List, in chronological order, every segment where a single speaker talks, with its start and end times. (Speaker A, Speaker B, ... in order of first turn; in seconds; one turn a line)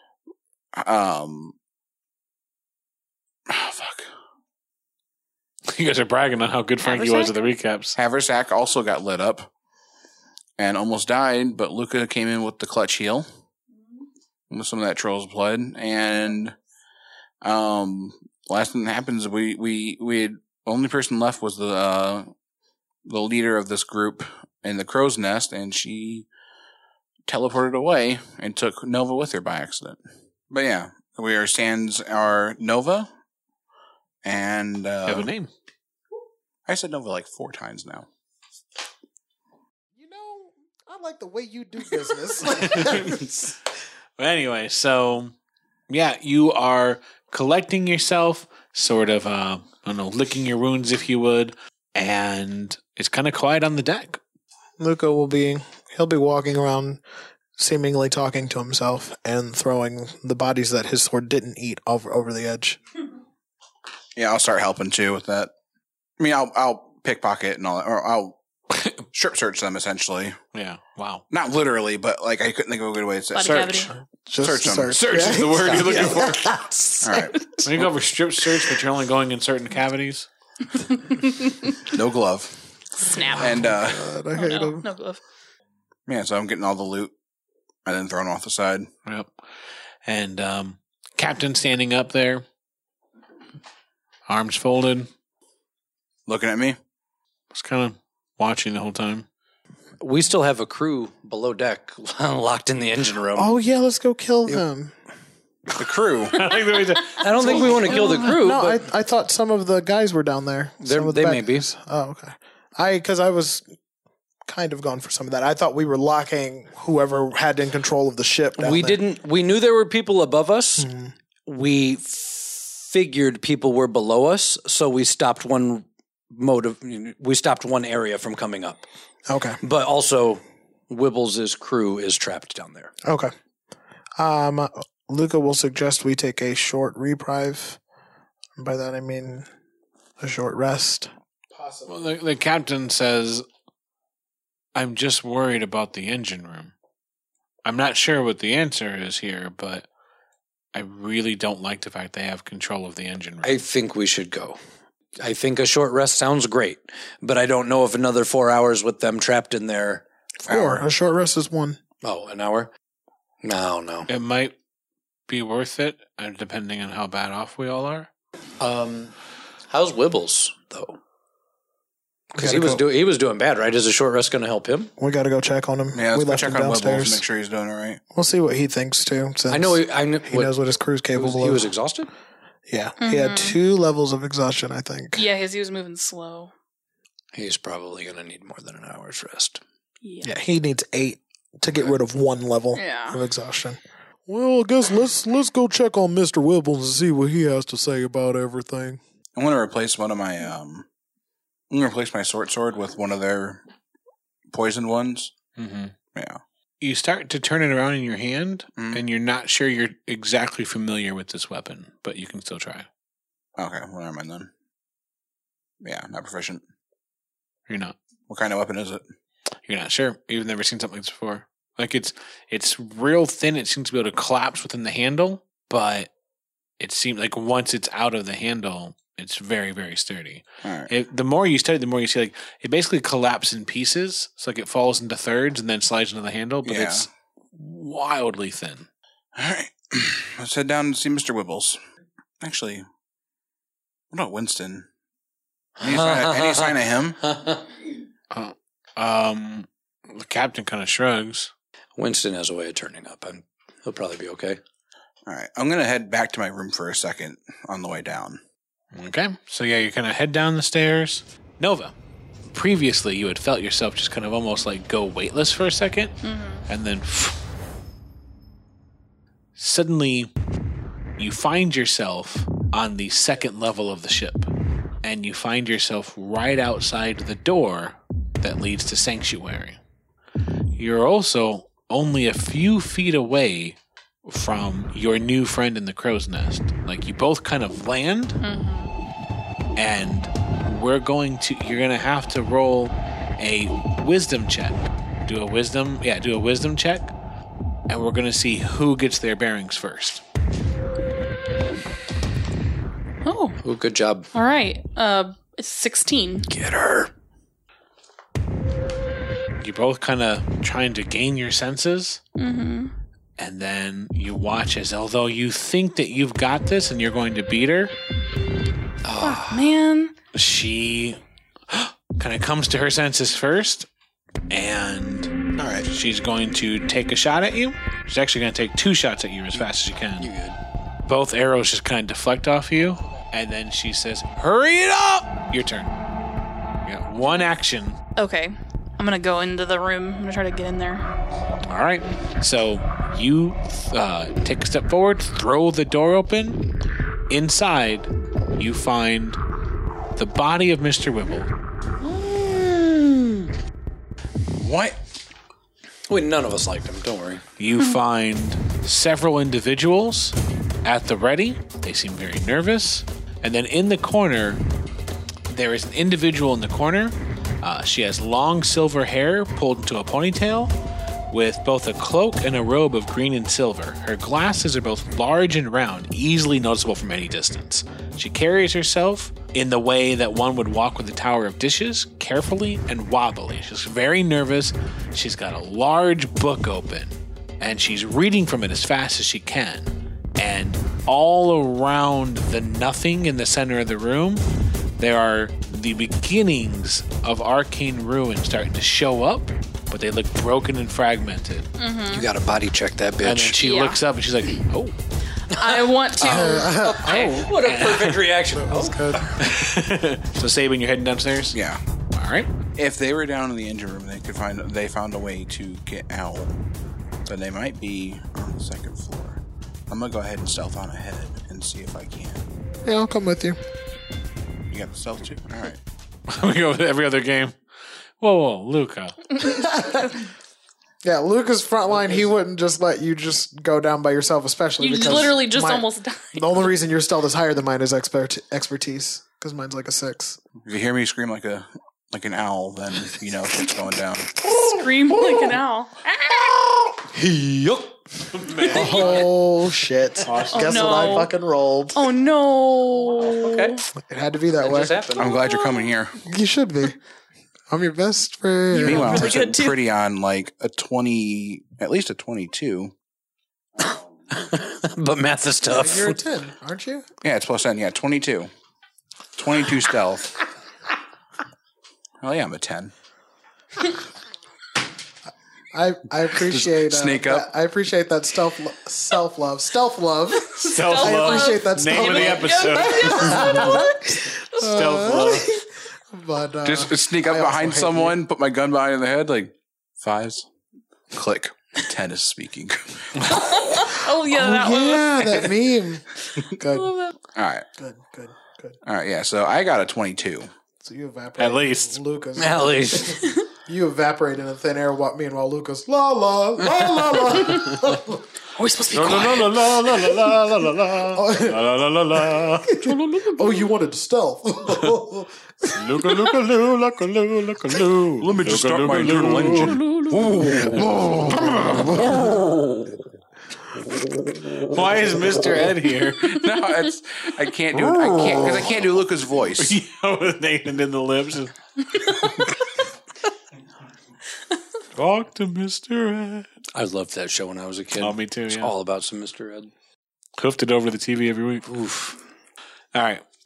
Speaker A: 0.8-1.6
Speaker A: 3.5-4.1
Speaker B: 5.7-8.0
Speaker C: 6.8-7.3
Speaker A: 8.0-9.5
Speaker A: 10.6-13.3
Speaker A: 14.5-16.6
Speaker A: 17.4-22.3
Speaker A: 23.1-26.3
Speaker A: 27.3-30.0
Speaker A: 30.5-33.1
Speaker A: 34.2-35.3
Speaker B: 35.1-35.5
Speaker A: 36.7-38.1
Speaker D: 40.0-43.5
Speaker B: 42.7-43.1
Speaker B: 44.2-45.3
Speaker B: 45.9-54.2
Speaker D: 54.8-57.0
Speaker D: 57.6-62.8
Speaker A: 64.2-65.5
Speaker A: 66.2-68.4
Speaker B: 68.7-69.0
Speaker A: 69.1-70.4
Speaker B: 70.5-71.2
Speaker A: 71.3-75.0
Speaker C: 73.3-73.9
Speaker D: 74.1-77.2
Speaker B: 74.9-76.7
Speaker A: 77.0-77.7
Speaker B: 77.5-80.3
Speaker A: 81.9-82.5
Speaker C: 83.0-83.6
Speaker A: 83.1-84.1
Speaker D: 83.3-84.9
Speaker C: 84.3-85.2
Speaker A: 86.1-87.1
Speaker A: 87.8-88.9
Speaker B: 90.1-92.5
Speaker B: 94.3-95.1
Speaker A: 96.3-96.8
Speaker B: 97.5-99.3
Speaker E: 100.0-103.5
Speaker D: 103.3-105.0
Speaker A: 105.8-106.4
Speaker B: 106.3-107.9
Speaker E: 107.2-108.8
Speaker C: 107.4-108.4
Speaker D: 107.9-113.7
Speaker E: 110.8-111.7
Speaker D: 114.5-119.0
Speaker E: 118.6-120.9
Speaker D: 120.8-121.1
Speaker E: 121.5-128.8
Speaker D: 129.3-129.6
Speaker E: 129.6-132.9
Speaker D: 133.1-133.3
Speaker D: 134.2-137.8
Speaker D: 138.6-139.5
Speaker D: 140.2-141.9
Speaker B: 141.9-143.5
Speaker B: 144.8-146.7
Speaker B: 147.7-149.9
Speaker B: 150.7-153.6
Speaker E: 153.4-154.6
Speaker E: 155.2-160.0
Speaker D: 160.4-161.8
Speaker A: 160.5-160.9
Speaker E: 162.0-162.7
Speaker E: 163.4-164.1
Speaker B: 164.1-164.6
Speaker B: 165.3-168.1
Speaker E: 168.6-169.1
Speaker E: 169.7-171.0
Speaker D: 172.3-172.8
Speaker E: 172.3-174.9
Speaker D: 175.0-177.2
Speaker A: 175.9-178.0
Speaker D: 178.1-181.7
Speaker E: 179.5-180.5
Speaker E: 181.2-182.1
Speaker D: 182.7-185.3
Speaker C: 183.0-183.6
Speaker C: 185.2-186.5
Speaker E: 187.3-189.6
Speaker C: 190.0-190.3
Speaker D: 190.2-199.0
Speaker C: 192.8-193.2
Speaker A: 199.4-200.9
Speaker A: 201.7-203.6
Speaker A: 204.5-205.3
Speaker B: 205.6-205.9
Speaker A: 206.2-206.4
Speaker B: 206.8-212.9
Speaker A: 208.8-209.0
Speaker A: 213.6-214.5
Speaker A: 215.8-216.6
Speaker B: 217.7-217.9
Speaker A: 218.3-219.0
Speaker B: 219.7-226.1
Speaker B: 226.8-238.9
Speaker A: 230.6-230.9
Speaker A: 236.7-237.1
Speaker A: 239.4-241.8
Speaker A: 242.4-242.9
Speaker A: 244.1-244.9
Speaker E: 245.8-247.6
Speaker A: 245.8-247.2
Speaker B: 248.3-251.5
Speaker E: 252.0-254.6
Speaker A: 255.3-258.4
Speaker B: 258.9-261.9
Speaker B: 262.5-267.5
Speaker C: 266.2-266.6
Speaker B: 269.6-270.3
Speaker B: 271.2-274.5
Speaker B: 275.0-279.8
Speaker B: 280.8-288.4
Speaker C: 288.4-288.9
Speaker B: 289.8-297.1
Speaker B: 297.9-300.2
Speaker C: 303.2-303.6
Speaker E: 303.6-304.3
Speaker C: 304.3-306.5
Speaker E: 306.5-307.1
Speaker B: 309.6-312.2
Speaker C: 312.4-312.9
Speaker B: 313.4-317.9
Speaker E: 319.0-319.7
Speaker C: 319.2-320.1
Speaker B: 320.3-323.9
Speaker B: 324.5-330.3
Speaker A: 325.6-325.9
Speaker E: 330.2-330.6
Speaker B: 331.1-335.9
Speaker B: 336.9-338.0
Speaker C: 338.2-341.1
Speaker B: 341.6-346.6
Speaker B: 347.3-349.4
Speaker B: 350.2-351.5
Speaker E: 352.0-353.3
Speaker A: 354.6-355.0
Speaker E: 356.1-357.4
Speaker B: 357.6-364.6
Speaker B: 365.5-370.7
Speaker B: 371.3-394.4
Speaker B: 395.0-401.7
Speaker C: 401.8-402.3
Speaker E: 402.1-403.6
Speaker B: 403.2-405.0
Speaker C: 403.6-404.0
Speaker C: 405.5-406.9
Speaker E: 405.5-409.2
Speaker D: 406.2-407.6
Speaker B: 407.6-408.3
Speaker D: 408.5-409.4
Speaker B: 409.3-411.6
Speaker A: 411.5-411.8
Speaker B: 412.1-412.5
Speaker A: 412.8-416.5
Speaker A: 417.3-422.4
Speaker D: 422.9-423.6
Speaker A: 424.7-425.8
Speaker B: 426.3-427.6
Speaker B: 428.2-429.2
Speaker D: 429.4-430.2
Speaker D: 431.0-440.4
Speaker C: 434.8-436.7
Speaker A: 440.6-444.4
Speaker C: 444.4-446.3
Speaker E: 446.6-447.9
Speaker B: 448.3-449.3
Speaker D: 448.6-452.1
Speaker E: 448.6-449.1
Speaker B: 450.2-451.2
Speaker C: 450.5-451.3
Speaker C: 451.9-453.8
Speaker E: 453.2-453.8
Speaker D: 454.0-455.1
Speaker E: 454.6-455.3
Speaker A: 455.2-456.2
Speaker C: 455.2-455.9
Speaker D: 456.2-457.0
Speaker D: 457.7-459.3
Speaker C: 458.7-459.8
Speaker A: 458.8-462.9
Speaker E: 463.8-466.2
Speaker D: 465.6-467.1
Speaker A: 467.2-468.5
Speaker A: 469.4-470.4
Speaker A: 472.2-472.9
Speaker D: 475.7-488.2
Speaker A: 476.4-477.5
Speaker C: 480.5-484.4
Speaker B: 480.6-483.9
Speaker B: 484.6-485.6
Speaker A: 486.6-490.5
Speaker A: 491.1-493.9
Speaker C: 493.3-495.5
Speaker D: 494.2-496.9
Speaker C: 496.6-497.1
Speaker A: 497.4-497.6
Speaker D: 497.8-498.8
Speaker A: 498.9-500.5
Speaker D: 500.8-508.2
Speaker B: 501.4-502.0
Speaker E: 502.4-503.2
Speaker C: 508.6-509.7
Speaker B: 508.9-513.0
Speaker D: 510.9-516.4
Speaker B: 515.8-522.3
Speaker A: 518.2-521.2
Speaker B: 524.5-526.5
Speaker A: 526.2-529.8
Speaker B: 527.9-528.6
Speaker B: 529.6-532.4
Speaker B: 534.9-536.5
Speaker E: 536.7-539.7
Speaker B: 538.0-538.7
Speaker B: 540.4-541.7
Speaker E: 541.7-542.2
Speaker B: 542.9-543.2